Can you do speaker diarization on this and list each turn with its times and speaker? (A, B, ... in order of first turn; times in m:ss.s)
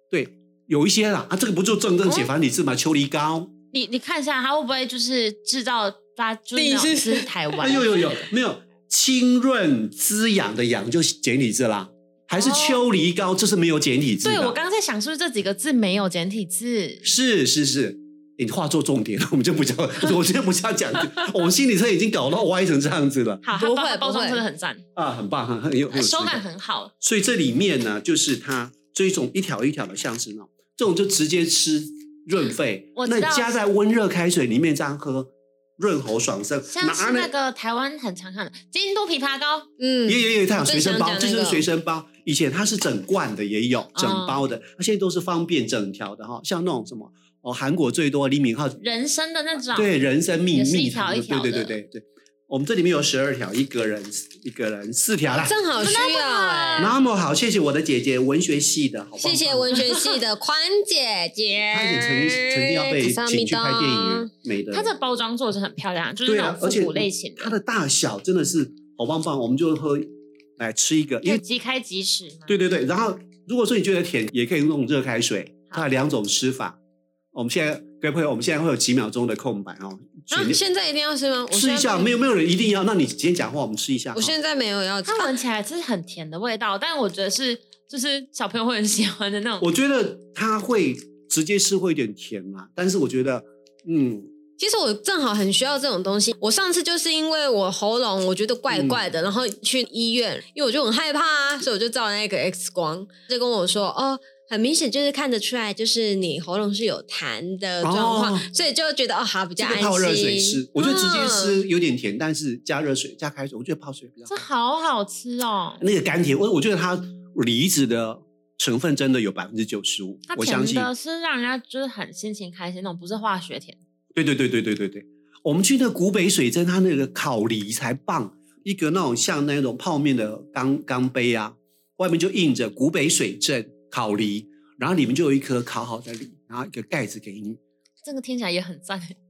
0:00.1-0:03.5 A
0:03.7-0:08.2 B
0:06.6-0:07.6 C
0:07.6-0:14.6 A
0:12.3-0:12.8 B
0:14.2-0:17.1 B
0:17.0-0:23.5 A
0:23.4-0:24.8 B
0:23.5-0:24.4 C
0:25.0-0:26.4 A
0:25.9-0:26.9 B
0:27.0-0:37.3 A
0:33.0-0:33.5 B
0:36.7-0:39.7 B
0:39.8-0:41.7 C
0:40.1-0:48.8 A
0:44.0-0:44.4 B
0:48.8-0:49.9 B
0:49.7-0:55.6 A
0:50.5-0:51.8 B
0:55.3-0:56.9 C
0:55.8-0:57.0 B
0:56.8-0:59.8 A
0:59.2-1:04.3 C
0:59.8-1:00.1 B
1:01.7-1:04.9 A
1:04.7-1:07.5 B
1:06.2-1:11.4 A
1:11.2-1:12.6 B
1:12.5-1:16.8 A
1:17.3-1:20.6 A
1:20.3-1:22.2 C
1:21.5-1:24.3 A
1:24.1-1:25.4 C
1:25.0-1:29.7 B
1:29.6-1:34.3 A
1:34.6-1:51.6 C
1:38.7-1:39.0 A
1:47.8-1:48.5 A
1:49.6-1:54.4 A
1:54.3-1:55.8 B
1:55.8-2:00.9 A
2:00.3-2:03.8 B
2:04.1-2:17.6 A
2:18.0-2:19.2 B